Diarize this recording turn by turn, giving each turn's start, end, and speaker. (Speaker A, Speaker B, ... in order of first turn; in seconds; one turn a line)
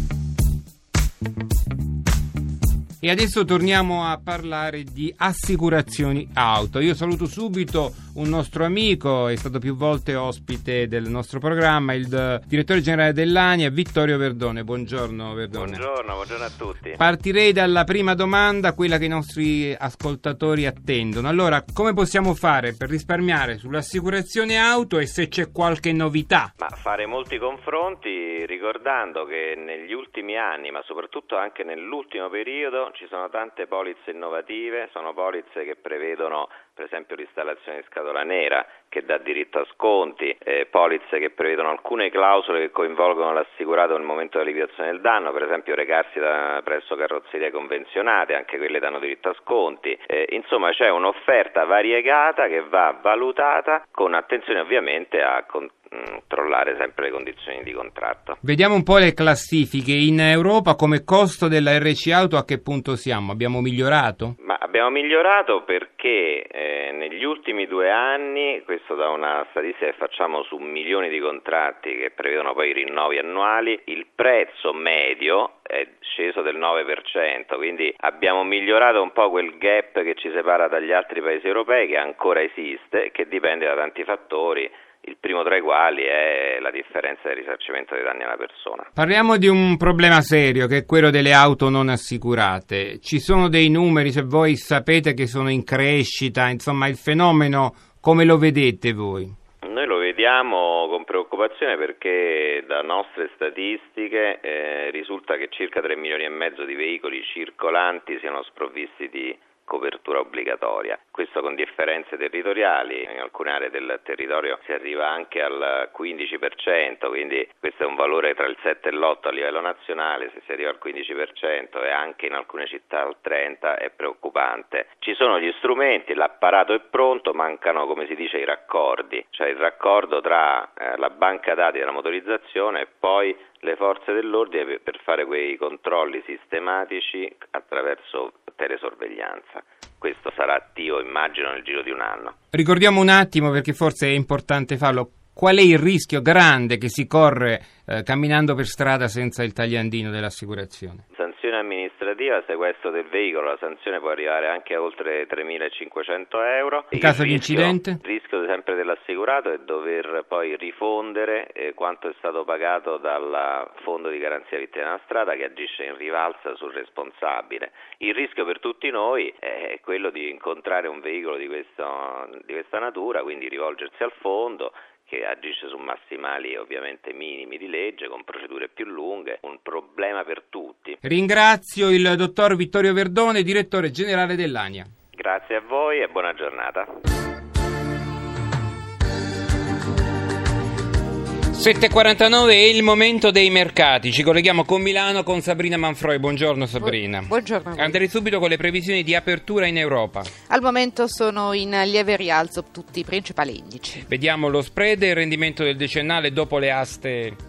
Speaker A: 3.0-15.8
Speaker B: 15.5-17.0
Speaker A: 17.0-26.5
Speaker B: 26.6-58.4
Speaker A: 58.4-64.3
Speaker B: 64.4-88.9
Speaker A: 89.0-99.3
Speaker B: 99.6-142.3
Speaker A: 142.5-151.0
Speaker B: 151.1-181.0
Speaker A: 156.9-158.0
Speaker A: 181.0-184.9
Speaker B: 185.1-186.9
Speaker A: 191.5-200.3
Speaker C: 196.8-198.0
Speaker C: 200.4-204.1
Speaker A: 204.1-207.4